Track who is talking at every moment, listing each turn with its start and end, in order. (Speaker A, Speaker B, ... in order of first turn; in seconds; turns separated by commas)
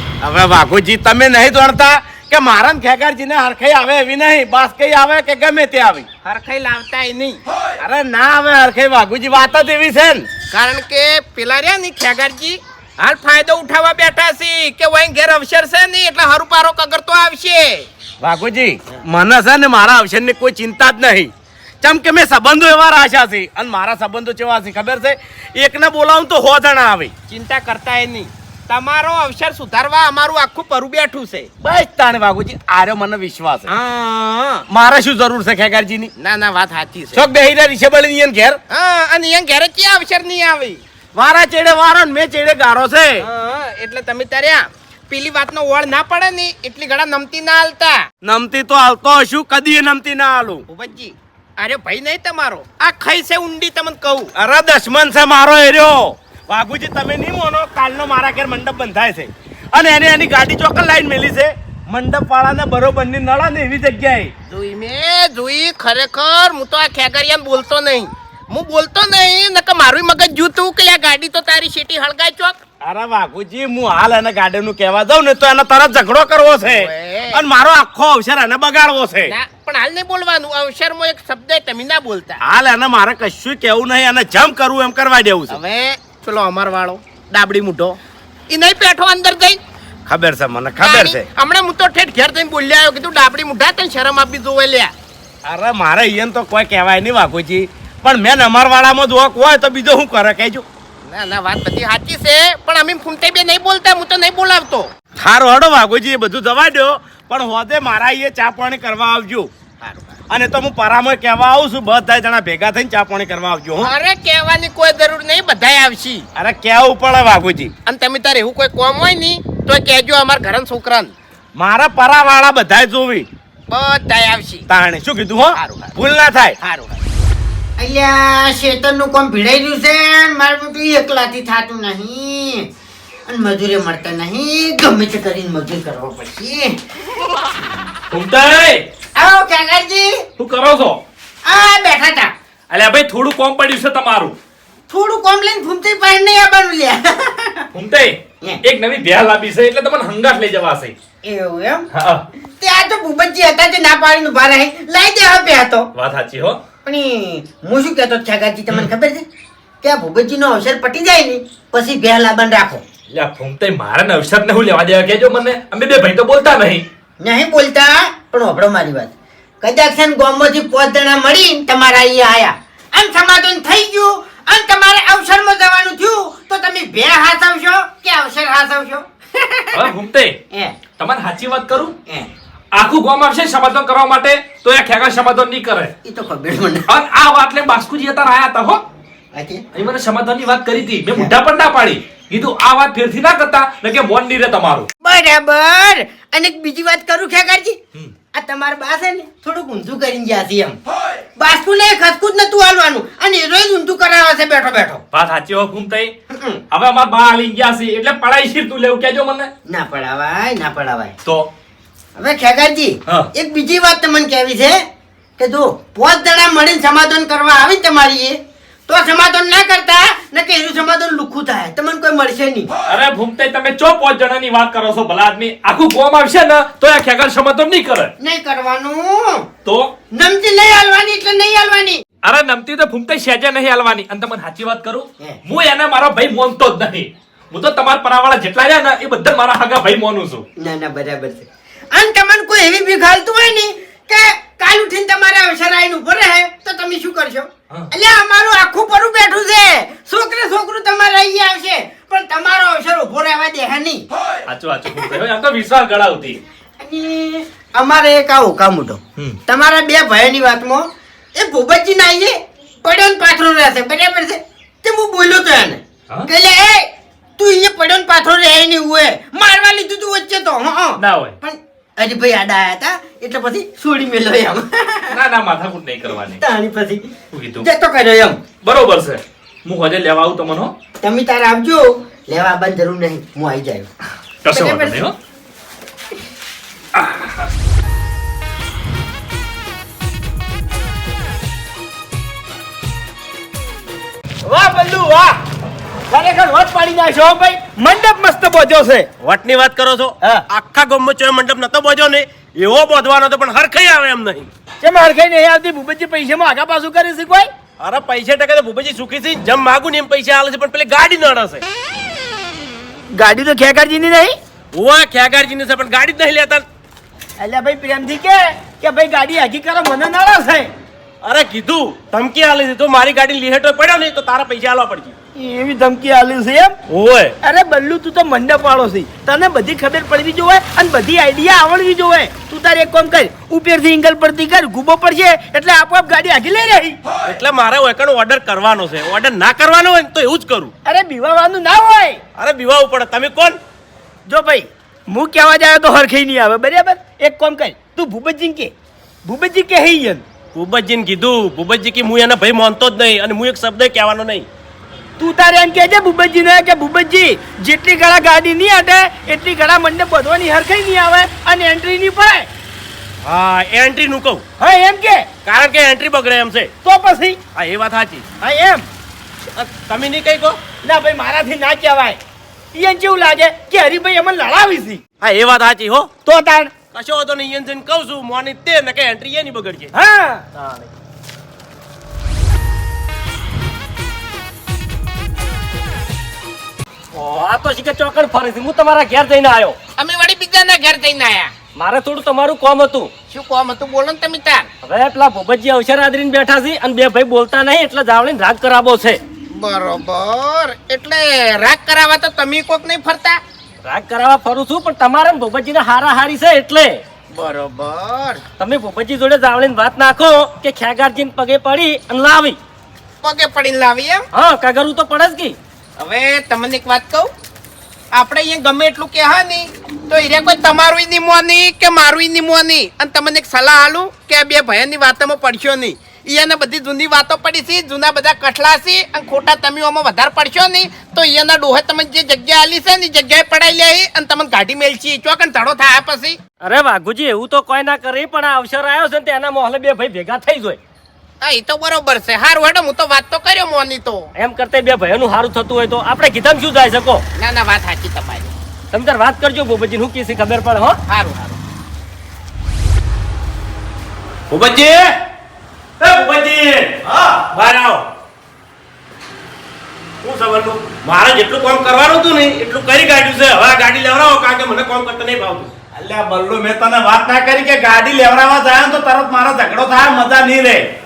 Speaker A: 0.2-6.1, Speaker B: 6.2-7.4, Speaker A: 7.8-10.2, Speaker B: 10.5-17.9, Speaker A: 18.2-21.3, Speaker A: 21.8-27.1, Speaker B: 27.3-31.5, Speaker A: 31.6-36.1, Speaker B: 36.2-37.2, Speaker A: 37.1-38.6, Speaker B: 38.7-40.8, Speaker A: 41.1-43.3, Speaker B: 43.2-48.0, Speaker A: 48.2-50.6, Speaker B: 50.7-54.3, Speaker A: 54.4-64.3, Speaker B: 64.5-72.6, Speaker A: 72.8-79.3, Speaker B: 76.6-77.5, Speaker B: 79.3-82.4, Speaker A: 82.4-85.6, Speaker B: 85.5-88.0, Speaker B: 88.5-89.6, Speaker A: 90.1-91.3, Speaker B: 90.8-94.9, Speaker A: 95.4-100.6, Speaker B: 101.1-104.9, Speaker A: 105.2-109.5, Speaker B: 109.8-110.2, Speaker A: 110.3-113.9, Speaker B: 113.8-116.2, Speaker A: 116.3-117.7, Speaker B: 117.8-121.1, Speaker A: 121.5-123.3, Speaker B: 123.7-124.7, Speaker A: 124.7-126.6, Speaker B: 125.5-126.0, Speaker B: 126.6-127.0, Speaker C: 127.8-132.7, Speaker C: 133.3-136.8, Speaker D: 138.1-138.8, Speaker C: 139.2-140.2, Speaker D: 140.4-141.0, Speaker C: 141.4-142.3, Speaker D: 142.7-144.3, Speaker C: 144.9-147.6, Speaker D: 147.7-150.9, Speaker C: 151.2-151.9, Speaker D: 151.9-152.2, Speaker C: 152.6-155.9, Speaker D: 155.9-156.6, Speaker C: 156.8-159.2, Speaker C: 159.8-162.8, Speaker D: 163.1-166.8, Speaker C: 167.2-179.9, Speaker D: 179.7-180.4, Speaker C: 180.5-180.8, Speaker D: 180.9-181.9, Speaker D: 182.7-185.9, Speaker C: 186.0-186.9, Speaker D: 186.9-188.8, Speaker C: 189.3-189.6, Speaker D: 189.7-194.9, Speaker C: 195.0-197.8, Speaker C: 198.3-200.8, Speaker C: 201.3-205.0, Speaker D: 205.1-206.1, Speaker C: 206.3-206.6, Speaker D: 206.7-209.5, Speaker C: 209.7-211.1, Speaker C: 212.2-214.8, Speaker C: 215.4-222.7, Speaker D: 222.9-228.1, Speaker C: 228.2-229.4, Speaker D: 229.6-229.9, Speaker C: 230.1-232.0, Speaker D: 232.2-240.4, Speaker C: 240.6-254.0, Speaker D: 254.4-256.4, Speaker C: 256.8-275.2, Speaker D: 271.0-271.4, Speaker D: 275.1-276.4, Speaker C: 276.4-277.1, Speaker D: 277.3-277.7, Speaker C: 277.6-278.4, Speaker D: 278.6-280.7, Speaker C: 281.0-283.9, Speaker D: 284.4-285.1, Speaker C: 284.5-285.0, Speaker D: 286.9-287.4, Speaker E: 294.4-295.4, Speaker E: 296.1-299.1, Speaker F: 299.2-304.5, Speaker E: 304.8-307.5, Speaker F: 307.8-311.6, Speaker E: 313.1-314.4, Speaker F: 314.7-316.6, Speaker E: 317.4-320.7, Speaker F: 321.2-325.1, Speaker E: 325.3-326.8, Speaker F: 326.9-327.4, Speaker E: 327.4-337.0, Speaker F: 337.2-340.7, Speaker E: 340.8-342.2, Speaker F: 342.4-343.6, Speaker E: 344.3-348.7, Speaker E: 349.2-350.2, Speaker F: 350.5-354.5, Speaker E: 355.2-362.5, Speaker F: 363.2-364.4, Speaker E: 364.6-365.3, Speaker F: 365.4-366.7, Speaker E: 366.8-367.4, Speaker F: 367.5-368.3, Speaker E: 368.4-368.9, Speaker F: 369.5-370.6, Speaker E: 370.8-372.2, Speaker E: 372.7-375.0, Speaker F: 375.2-376.1, Speaker E: 376.2-376.7, Speaker F: 376.9-379.9, Speaker E: 379.9-380.4, Speaker G: 380.5-380.9, Speaker G: 387.1-389.8, Speaker B: 390.0-391.5, Speaker G: 391.8-393.1, Speaker B: 393.3-394.7, Speaker G: 394.8-399.2, Speaker B: 399.5-403.4, Speaker G: 403.8-407.0, Speaker B: 407.3-408.4, Speaker G: 408.6-412.6, Speaker B: 413.2-414.2, Speaker G: 414.3-415.6, Speaker B: 416.0-417.3, Speaker B: 418.1-436.4, Speaker G: 436.6-440.8, Speaker B: 441.4-444.3, Speaker G: 444.4-447.2, Speaker B: 447.4-448.5, Speaker G: 448.9-451.0, Speaker B: 451.1-451.6, Speaker F: 454.5-455.1, Speaker F: 456.0-458.1, Speaker F: 460.2-465.7, Speaker A: 465.9-470.8